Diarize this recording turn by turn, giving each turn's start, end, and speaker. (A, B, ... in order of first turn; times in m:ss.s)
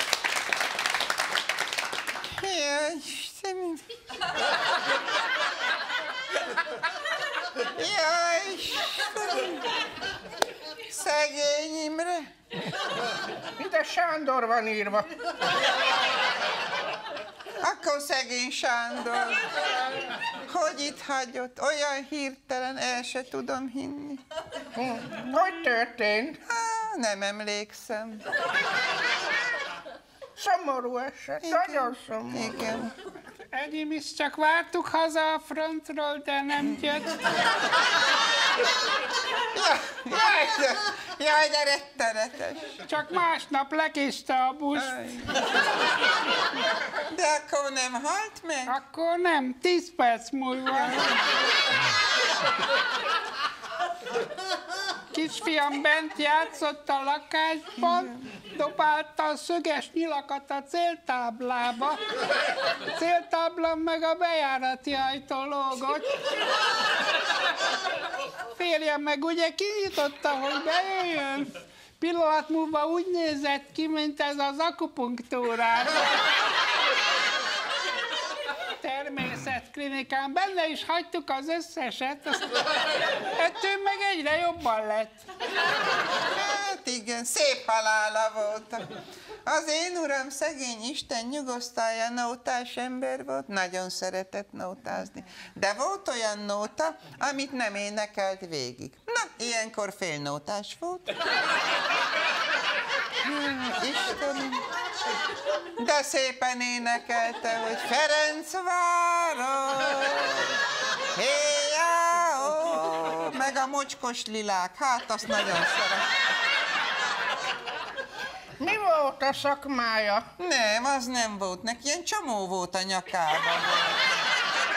0:02.3-0:03.8 A
0:07.7-0:09.7 A
0:10.9-0:12.3 A
0:13.6-0:15.1 B
0:17.6-0:19.4 A
0:20.5-0:24.2 A
0:24.7-0:26.4 B
0:26.5-0:28.2 A
0:30.4-0:32.7 B
0:31.4-0:32.9 A
0:33.5-0:37.2 C
0:39.5-0:42.7 A
0:42.8-0:44.9 C
0:44.7-0:45.4 A
0:47.0-0:48.8 A
0:48.7-0:51.1 C
0:50.7-0:51.2 A
0:55.1-1:02.0 C
1:02.9-1:06.2 C
1:08.5-1:16.0 C
1:18.8-1:22.6 C
1:23.4-1:25.2 C
1:26.3-1:28.9 A
1:29.4-1:41.1 A
1:43.2-1:44.6 A
1:45.8-1:50.6 A
1:51.1-1:56.0 A
1:58.6-2:00.2 B
2:00.4-2:04.0 A